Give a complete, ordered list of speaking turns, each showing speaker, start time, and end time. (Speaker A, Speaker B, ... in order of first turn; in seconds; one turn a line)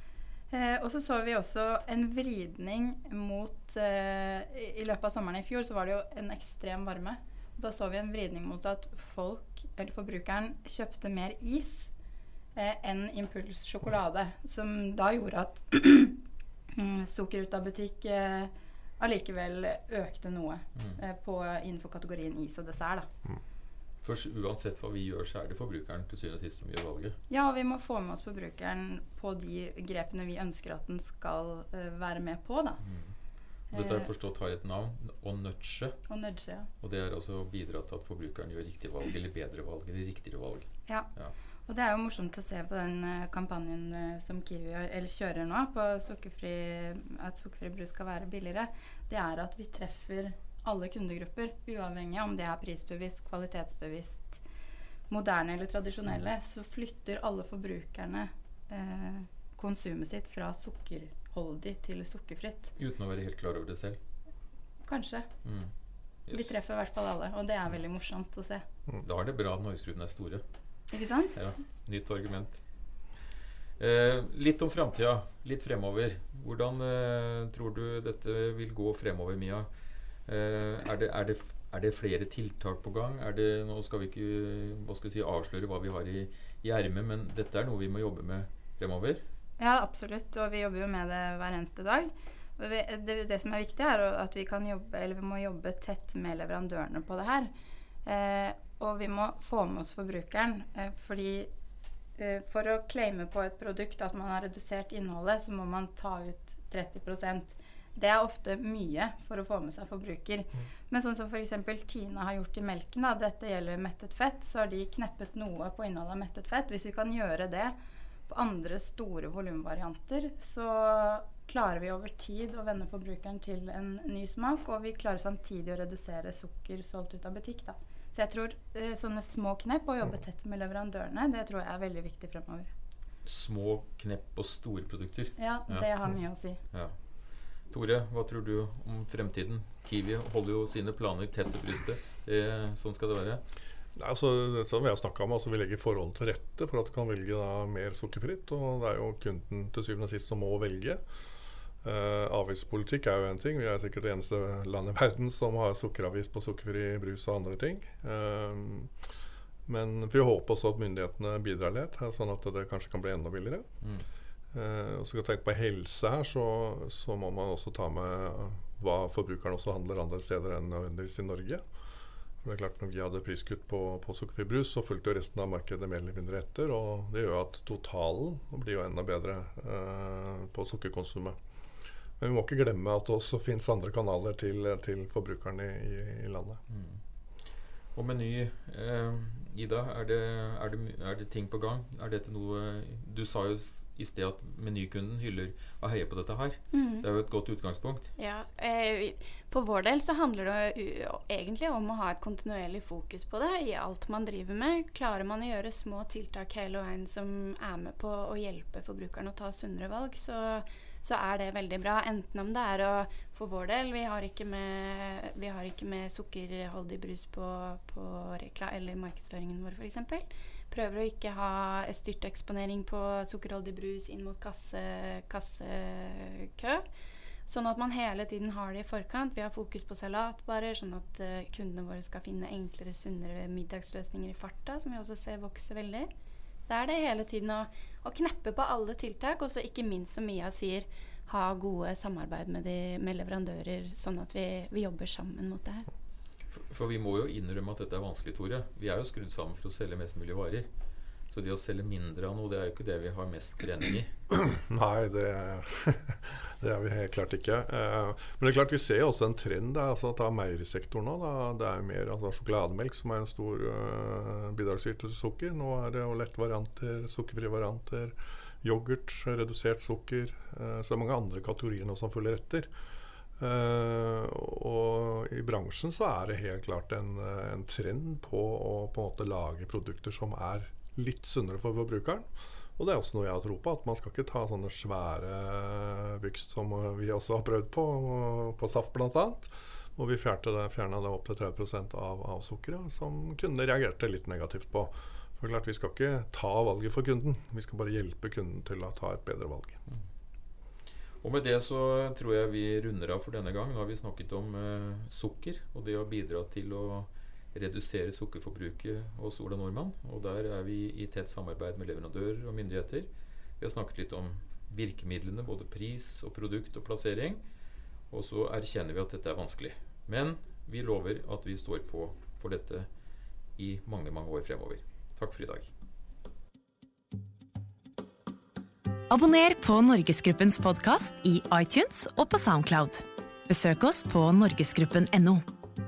Speaker A: 0.5-11.9
Speaker A: 12.5-16.2
Speaker A: 16.7-23.1
Speaker B: 24.0-27.2
Speaker A: 27.3-32.8
Speaker B: 32.8-33.1
Speaker A: 33.7-34.1
Speaker B: 33.7-36.0
Speaker A: 36.1-36.7
Speaker B: 36.8-41.3
Speaker A: 41.7-54.4
Speaker A: 55.1-62.7
Speaker B: 62.8-64.0
Speaker A: 64.8-65.3
Speaker B: 65.4-65.7
Speaker B: 66.3-66.5
Speaker A: 66.3-68.6
Speaker B: 69.0-70.4
Speaker A: 70.9-71.4
Speaker B: 71.3-72.6
Speaker B: 73.8-79.7
Speaker B: 80.2-89.2
Speaker A: 89.6-97.5
Speaker A: 98.0-101.5
Speaker A: 102.2-117.7
Speaker A: 118.3-132.7
Speaker B: 133.2-136.1
Speaker A: 135.4-136.6
Speaker B: 137.7-143.4
Speaker C: 143.9-151.0
Speaker C: 151.8-158.9
Speaker C: 159.7-163.7
Speaker C: 164.5-171.6
Speaker C: 172.4-181.4
Speaker C: 182.2-186.6
Speaker B: 186.7-187.0
Speaker B: 187.9-198.1
Speaker D: 196.7-197.1
Speaker D: 198.2-226.8
Speaker D: 227.5-236.1
Speaker D: 236.7-245.9
Speaker B: 246.5-250.7
Speaker B: 251.3-254.1
Speaker C: 254.3-272.7
Speaker C: 273.4-299.8
Speaker B: 301.2-317.4
Speaker B: 318.1-322.9
Speaker B: 323.6-325.7
Speaker E: 329.1-335.4